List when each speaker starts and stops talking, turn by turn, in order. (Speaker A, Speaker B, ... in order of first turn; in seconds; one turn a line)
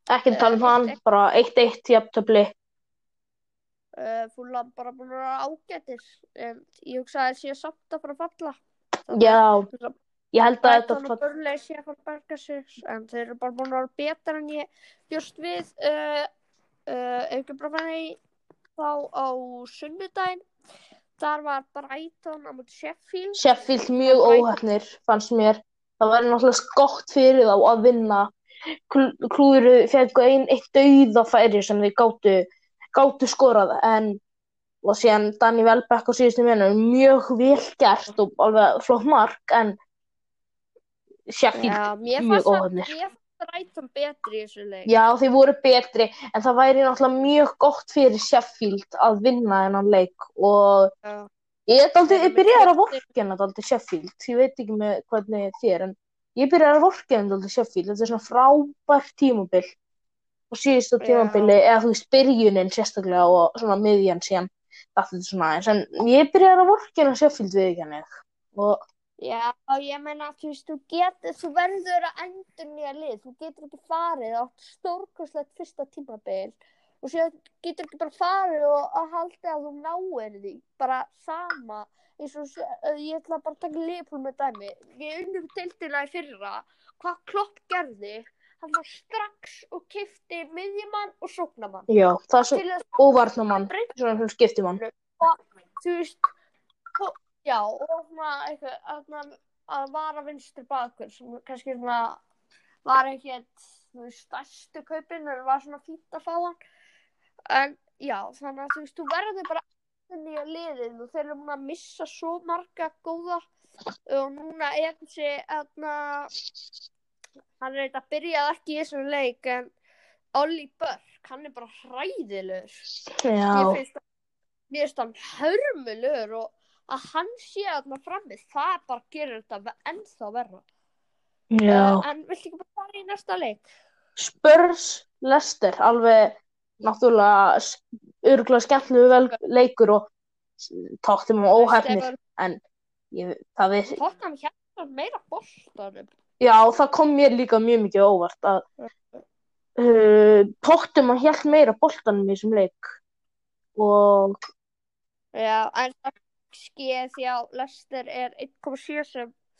Speaker A: 0.1-2.5
Speaker B: 0.3-0.9
Speaker B: 3.9-10.0
Speaker A: 9.1-9.7
Speaker A: 10.3-11.2
Speaker B: 10.6-16.3
Speaker B: 16.9-18.2
Speaker B: 18.8-20.4
Speaker B: 21.2-24.6
Speaker A: 23.4-28.3
Speaker A: 28.9-34.2
Speaker A: 34.8-39.8
Speaker A: 41.3-42.9
Speaker B: 41.5-44.9
Speaker A: 44.9-50.9
Speaker B: 51.0-51.3
Speaker A: 51.7-59.7
Speaker B: 52.0-53.0
Speaker A: 60.5-68.8
Speaker B: 61.0-61.5
Speaker B: 69.2-91.9
Speaker A: 91.9-94.8
Speaker B: 92.5-93.0
Speaker B: 94.8-96.3
Speaker B: 97.0-102.2
Speaker B: 102.8-106.5
Speaker B: 107.5-113.4
Speaker B: 114.1-116.3
Speaker B: 117.6-119.7
Speaker B: 120.4-122.8
Speaker A: 123.2-123.8
Speaker B: 123.5-124.0
Speaker B: 124.7-130.6
Speaker A: 131.5-132.0
Speaker B: 131.7-133.6
Speaker A: 134.2-142.6
Speaker B: 141.5-142.2
Speaker A: 143.1-144.0
Speaker B: 143.9-146.1
Speaker A: 146.4-148.6
Speaker A: 149.8-152.9
Speaker A: 153.8-154.4
Speaker B: 155.3-159.3